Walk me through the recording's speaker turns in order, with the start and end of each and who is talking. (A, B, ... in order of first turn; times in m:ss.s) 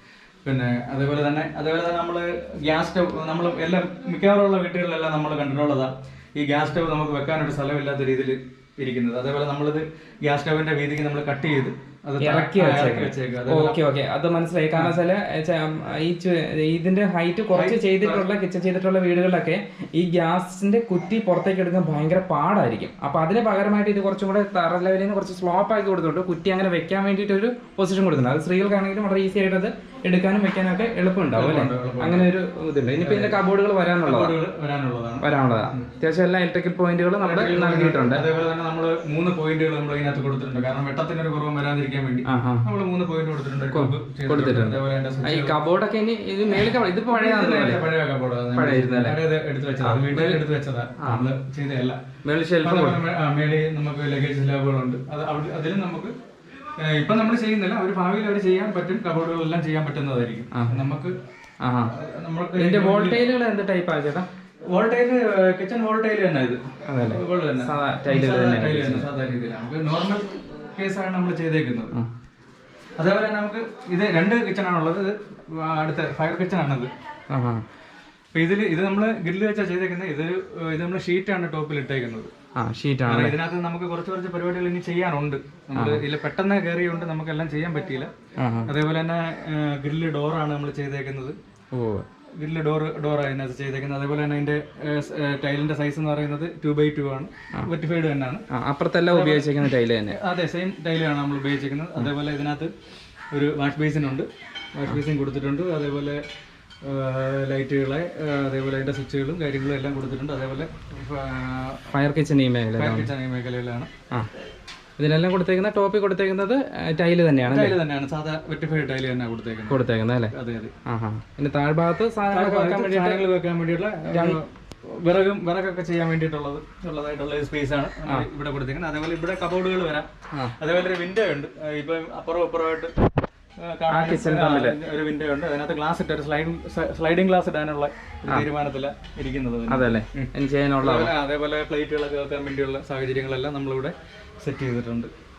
0:00.4-0:13.8 A
0:12.2-0:34.4 B
0:17.5-0:18.2 A
0:31.3-0:32.3 A
0:33.0-0:33.4 A
0:34.0-0:35.9 A
0:35.2-0:38.2 B
0:37.2-0:45.6 A
0:42.3-0:42.6 B
0:43.7-0:47.8 B
0:46.5-0:52.0 A
0:48.6-0:49.2 B
0:49.8-0:50.4 B
0:51.0-0:51.3 B
0:52.2-0:53.0 B
0:52.6-0:56.1 A
0:56.8-1:01.2 A
1:00.5-1:00.8 B
1:01.6-1:01.9 B
1:01.9-1:03.2 A
1:02.6-1:04.3 B
1:04.7-1:10.2 A
1:06.9-1:09.1 B
1:10.8-1:11.9 A
1:13.0-1:16.9 A
1:17.3-1:17.6 B
1:18.3-1:22.3 A
1:22.6-1:23.4 B
1:23.1-1:28.1 A
1:25.7-1:26.0 B
1:28.4-1:28.7 B
1:28.6-1:31.3 A
1:31.7-1:32.0 B
1:32.4-1:38.4 A
1:38.5-1:40.2 B
1:39.1-1:42.7 A
1:43.3-1:46.2 A
1:46.8-1:51.9 A
1:51.9-1:53.1 B
1:52.8-1:53.9 A
1:55.0-1:57.8 B
1:57.4-2:00.7 A
1:59.7-2:03.3 B
2:02.3-2:12.9 A
2:04.1-2:04.4 B
2:13.6-2:25.1 A
2:13.9-2:14.8 B
2:19.7-2:21.1 B